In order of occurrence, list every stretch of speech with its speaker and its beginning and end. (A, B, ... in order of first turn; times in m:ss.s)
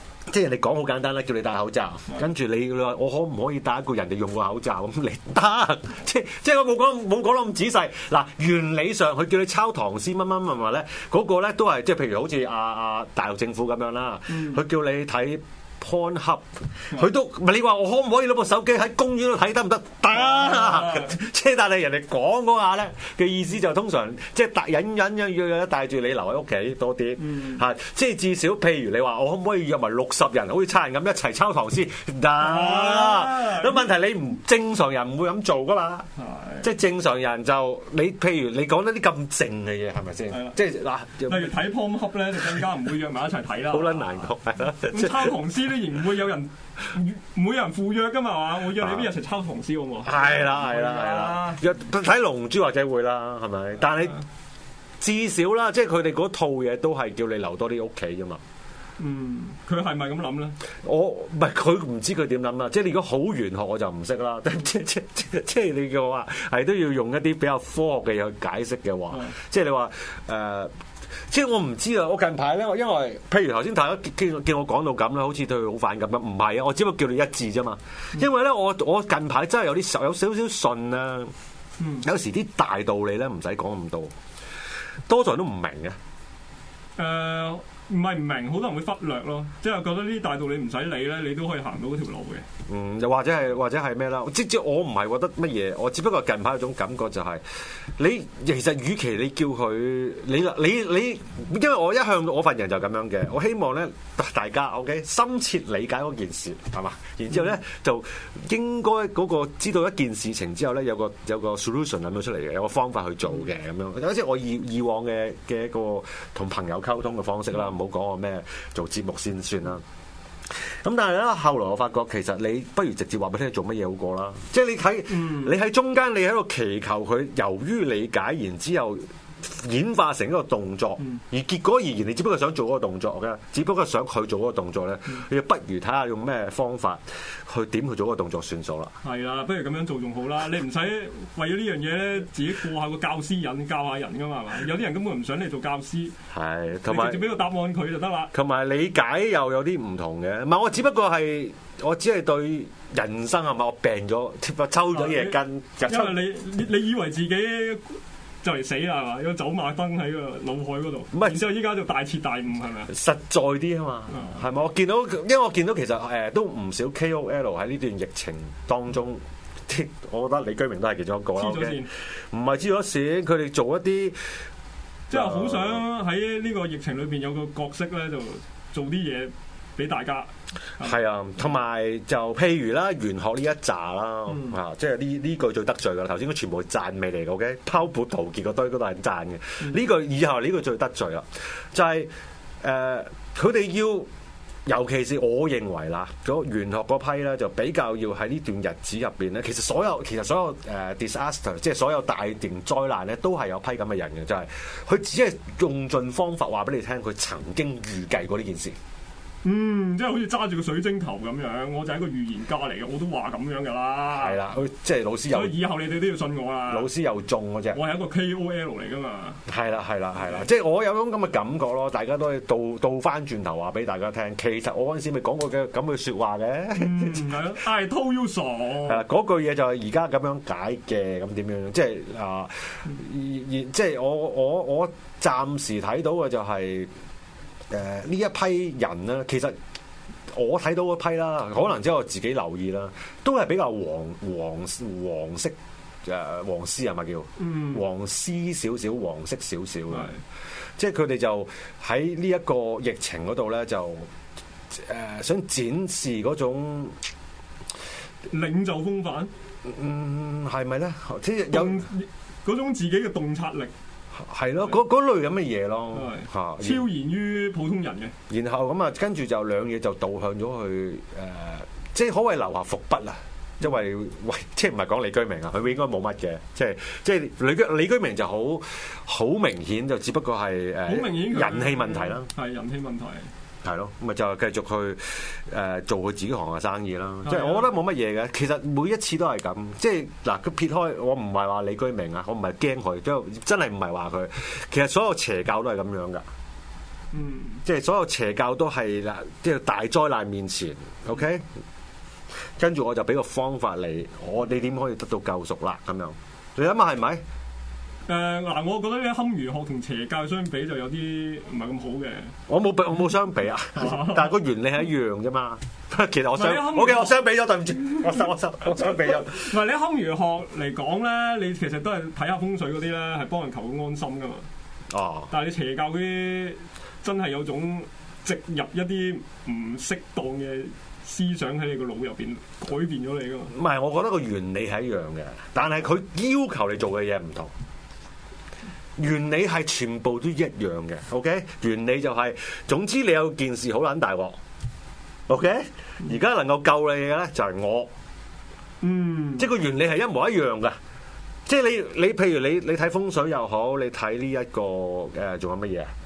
0:00.3-0:36.1 A
0:14.3-0:14.6 B
0:20.1-0:21.2 B
0:27.2-0:27.6 B
0:32.4-0:33.9 B
0:36.2-0:36.7 B
0:36.6-0:41.6 A
0:40.3-0:40.6 B
0:41.2-0:44.1 B
0:43.6-0:45.4 A
0:44.9-0:51.6 B
0:48.7-0:49.1 A
0:50.0-0:54.2 A
0:55.0-0:58.4 A
0:59.0-1:00.6 B
1:00.8-1:10.7 A
1:09.1-1:09.4 B
1:11.3-1:21.3 A
1:21.8-1:22.1 B
1:22.0-1:24.1 A
1:25.1-1:26.0 A
1:27.0-1:32.5 B
1:32.7-1:37.4 A
1:38.0-1:59.8 A
2:00.5-2:19.0 A
2:05.1-2:05.6 B
2:19.0-2:26.2 B
2:26.3-2:27.3 A
2:26.9-2:28.3 B
2:28.3-2:36.2 A
2:34.9-2:42.9 B
2:41.1-2:41.5 A
2:42.9-2:54.2 A
2:44.1-2:44.4 B
2:51.4-2:51.9 B
2:55.1-2:55.8 A
2:55.1-3:01.0 B
3:00.8-3:14.1 A
3:04.3-3:04.6 B
3:14.7-3:28.8 A
3:29.4-3:34.4 B
3:34.1-3:35.6 A
3:35.3-3:36.9 B
3:36.7-3:37.8 A
3:37.7-3:39.4 B
3:39.5-3:47.3 A
3:46.8-3:49.0 B
3:48.8-3:56.9 A
3:57.7-3:59.6 A
4:00.3-4:10.1 A
4:07.4-4:07.8 B
4:09.9-4:10.2 B
4:10.8-4:14.1 A
4:14.7-4:17.0 A
4:18.3-4:19.3 B
4:19.6-4:21.9 A
4:21.5-4:23.7 B
4:24.2-4:26.9 A
4:25.9-4:28.2 B
4:28.3-4:42.3 A
4:40.9-4:43.3 B
4:43.6-4:56.2 A
4:47.2-4:47.7 B
4:57.1-4:57.6 B
4:57.6-5:01.5 A
5:02.6-5:07.2 A
5:08.1-5:12.4 B
5:12.5-5:19.5 A
5:13.8-5:14.4 B
5:16.3-5:17.2 B
5:19.1-5:24.5 B
5:24.9-5:25.3 A
5:25.3-5:33.5 B
5:33.5-5:37.5 A
5:39.0-5:44.4 A
5:45.3-5:47.9 A
5:48.8-5:49.5 B
5:49.4-5:50.8 A
5:51.5-5:55.9 A